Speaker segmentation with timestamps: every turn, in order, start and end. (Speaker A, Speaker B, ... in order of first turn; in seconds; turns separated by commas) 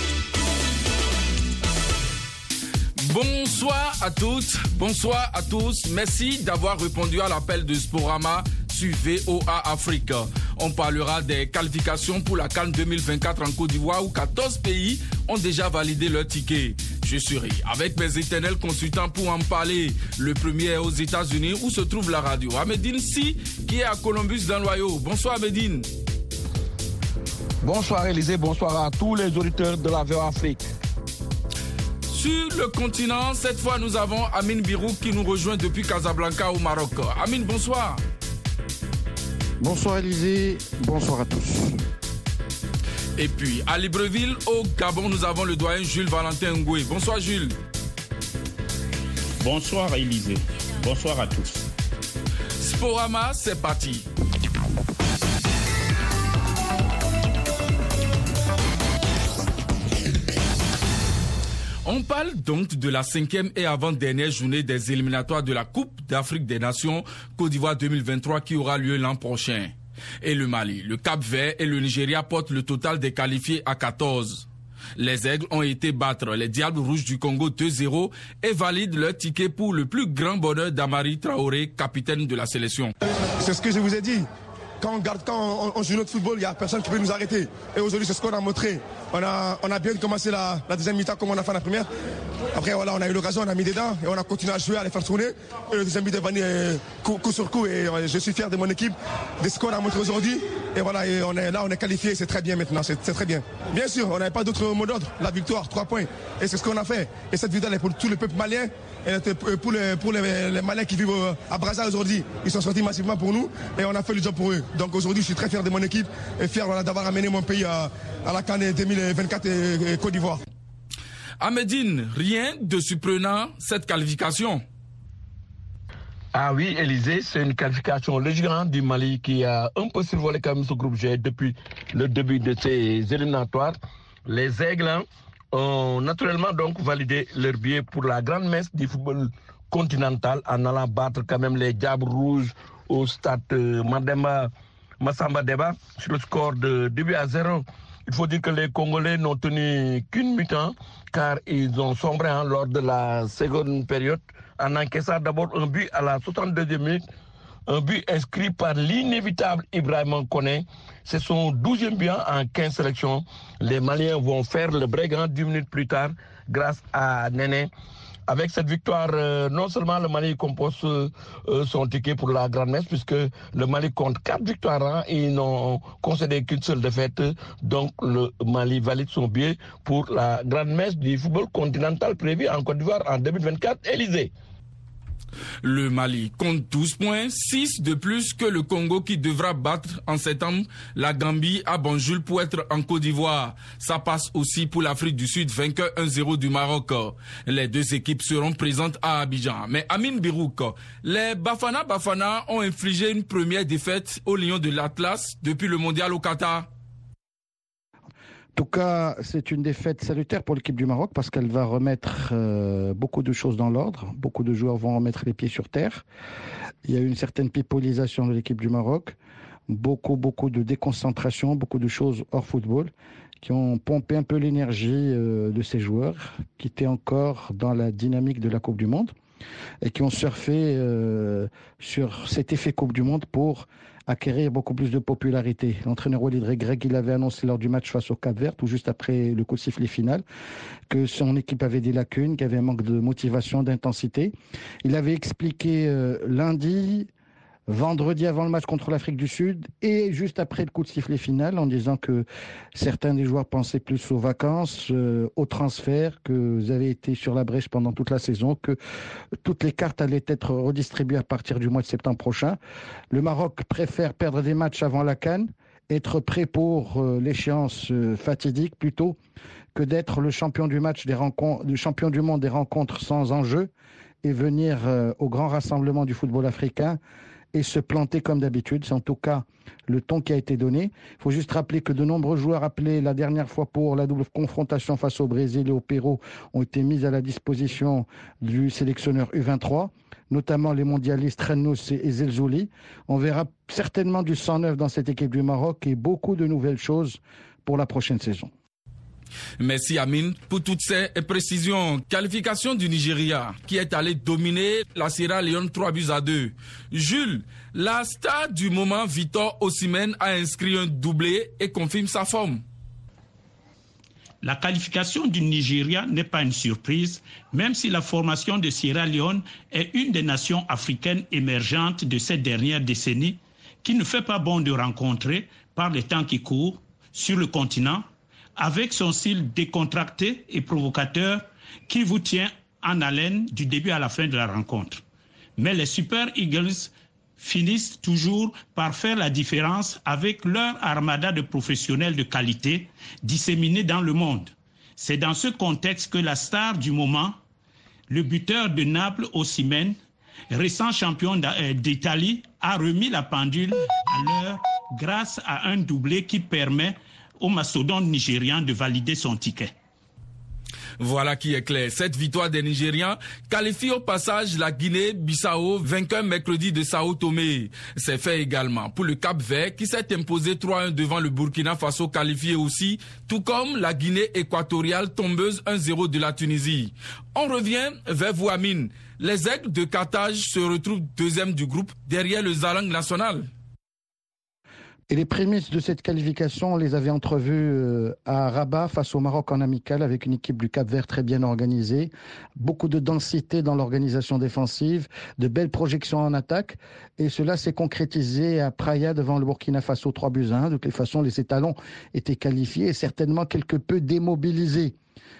Speaker A: 3.0-25.9, Speaker B: 27.6-30.6, Speaker A: 32.1-38.0, Speaker C: 39.6-41.8, Speaker A: 43.2-47.6, Speaker D: 49.4-51.6, Speaker A: 52.6-54.1, Speaker A: 61.8-82.9, Speaker E: 83.4-84.2, Speaker E: 84.8-91.9, Speaker E: 92.5-120.4, Speaker A: 121.4-124.6, Speaker B: 126.3-157.0, Speaker B: 157.7-167.7, Speaker B: 168.3-184.3, Speaker A: 185.6-206.7, Speaker C: 208.6-216.0, Speaker C: 216.8-219.2, Speaker C: 219.7-229.1, Speaker C: 229.8-240.2, Speaker C: 240.9-247.1, Speaker C: 247.7-258.8, Speaker C: 259.4-262.6, Speaker C: 263.1-269.1, Speaker C: 269.7-273.7, Speaker C: 274.2-277.0, Speaker C: 277.5-298.5, Speaker A: 299.6-312.6, Speaker D: 314.4-328.0, Speaker D: 328.6-335.0, Speaker D: 335.6-347.4, Speaker D: 348.1-349.9, Speaker D: 350.5-359.7, Speaker A: 361.0-383.5, Speaker C: 385.1-404.9